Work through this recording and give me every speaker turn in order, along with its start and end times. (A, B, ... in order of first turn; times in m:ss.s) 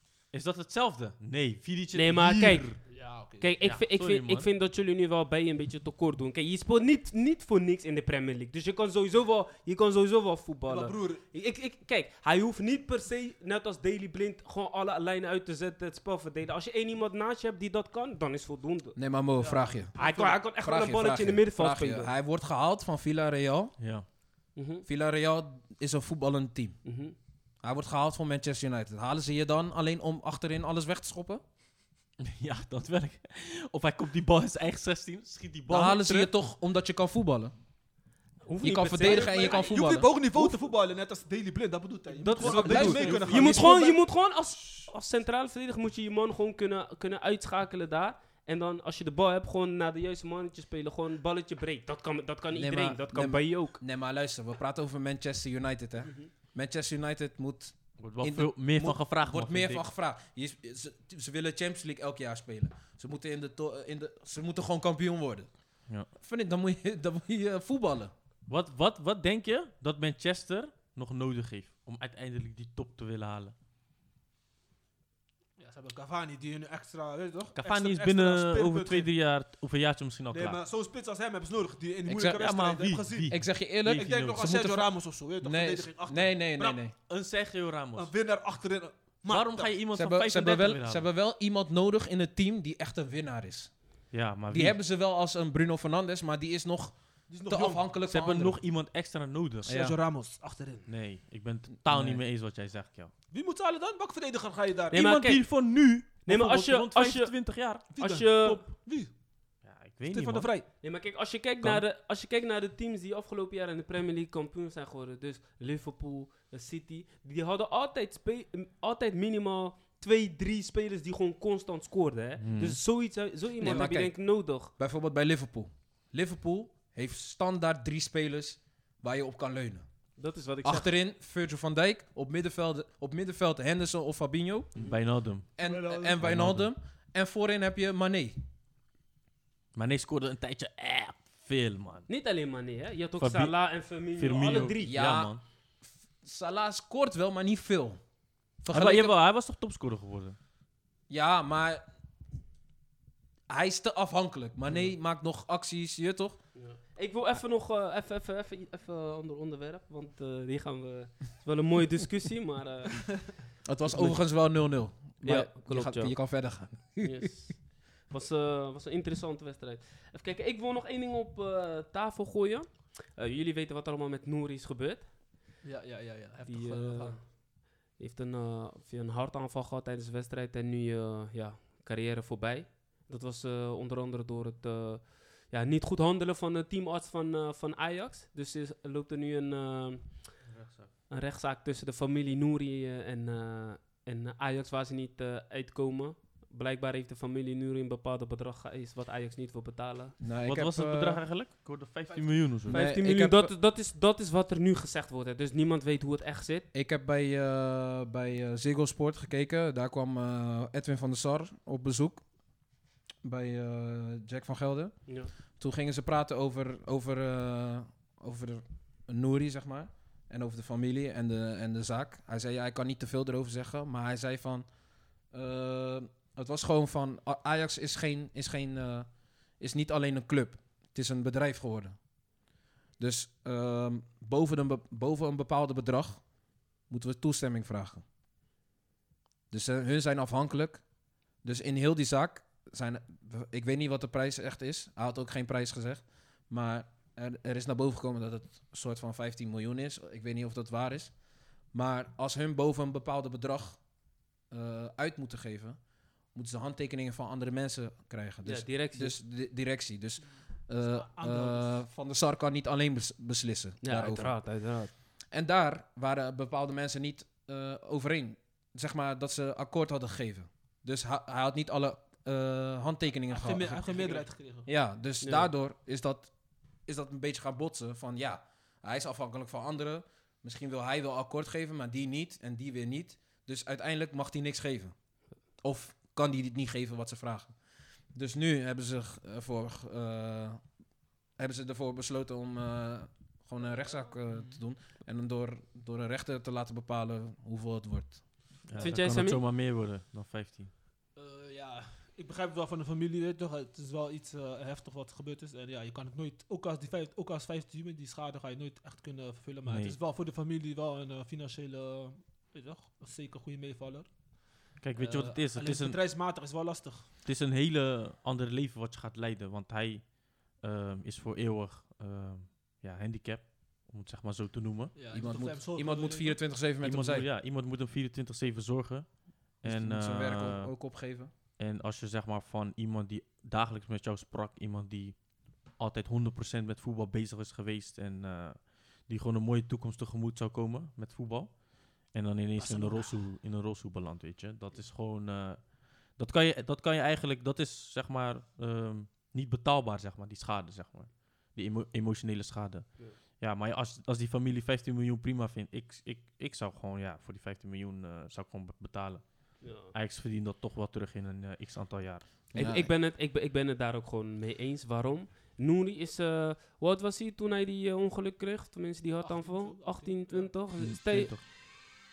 0:00.3-0:02.8 A
0:01.9-0:02.8 B
0:02.9-0:03.5 C
0:03.4-0:19.0 B
0:03.6-0:04.5 A
0:10.7-0:11.2 C
0:19.0-0:19.9 D
0:19.4-0:20.4 C
0:19.9-0:22.1 B
0:20.6-0:23.7 D
0:23.8-0:24.0 A
0:24.6-0:24.8 B
0:24.8-0:26.8 D
0:26.8-0:27.1 B
0:27.6-0:31.4 D
0:32.2-0:36.3 A
0:35.7-0:37.5 D
0:38.4-0:39.7 B
0:38.6-0:40.1 D
0:39.0-0:44.0 C
0:42.1-0:43.6 A
0:42.4-0:53.8 B
0:42.4-0:43.8 D
0:52.5-1:05.5 D
0:58.0-0:59.8 A
1:06.2-1:08.1 D
1:08.5-1:13.5 A
1:15.6-1:19.1 C
1:17.5-1:20.6 A
1:20.3-1:23.3 C
1:22.0-1:22.4 D
1:22.4-1:24.5 A
1:23.3-1:26.9 D
1:23.8-1:26.8 C
1:27.1-1:28.1 A
1:28.0-1:29.7 C
1:29.3-1:31.1 A
1:29.9-1:33.7 D
1:34.1-1:34.8 A
1:34.5-1:38.6 D
1:37.3-1:37.8 C
1:38.1-1:39.7 A
1:39.6-1:40.0 D
1:39.6-1:40.9 C
1:40.9-1:43.1 A
1:41.8-1:42.2 D
1:43.3-1:45.0 C
1:44.9-1:45.5 B
1:44.9-1:47.9 A
1:46.2-1:47.4 B
1:47.9-1:48.6 B
1:47.9-1:49.1 C
1:49.6-1:50.5 A
1:50.1-1:50.6 C
1:50.8-2:04.7 B
2:02.4-2:02.8 A
2:03.6-2:04.1 D
2:04.8-2:09.8 D
2:10.2-2:10.9 B
2:10.6-2:14.7 D
2:14.8-2:15.5 A
2:15.6-2:18.4 D
2:15.6-2:16.2 C
2:16.2-2:16.7 A
2:19.7-2:22.1 A
2:22.1-2:24.9 B
2:23.2-2:25.4 A
2:24.8-2:25.3 D
2:26.2-2:28.0 D
2:28.6-2:29.2 D
2:28.7-2:30.4 A
2:31.1-2:31.8 D
2:33.5-2:36.4 D
2:36.5-2:43.4 B
2:43.6-2:47.4 D
2:43.9-2:44.2 B
2:45.2-2:46.2 B
2:47.0-2:55.1 B
2:55.6-2:57.2 C
2:56.4-3:10.4 B
3:10.5-3:10.9 A
3:11.1-3:20.1 B
3:20.2-3:21.2 D
3:20.4-3:22.8 A
3:22.7-3:23.5 D
3:22.7-3:26.6 B
3:26.7-3:32.2 D
3:33.2-3:44.7 D
3:45.3-3:49.1 D
3:49.6-3:51.9 D
3:53.0-3:56.2 D
3:56.9-3:58.0 D
3:59.5-4:00.8 D
4:01.4-4:11.1 D
4:11.7-4:13.8 D
4:14.5-4:15.8 D
4:16.3-4:24.4 D
4:18.4-4:19.2 B
4:20.8-4:21.8 C
4:23.8-4:24.9 B
4:25.3-4:36.3 D
4:33.3-4:34.7 C
4:35.2-4:35.5 B
4:36.8-4:44.9 D
4:45.6-4:47.5 D
4:48.1-4:50.6 D
4:51.4-4:58.2 D
4:54.3-4:54.6 C
4:58.7-5:00.7 A
4:58.8-4:59.4 B
5:01.2-5:17.1 C
5:09.6-5:10.0 A
5:14.8-5:16.0 A
5:17.2-5:24.9 A
5:24.9-5:26.4 C
5:25.1-5:27.3 D
5:26.8-5:30.7 A
5:29.6-5:31.3 D
5:31.6-6:02.3 A
5:42.6-5:43.2 C
5:59.6-5:59.9 B
6:02.5-6:02.9 D
6:02.5-6:11.6 B
6:09.2-6:10.5 C
6:10.8-6:11.4 A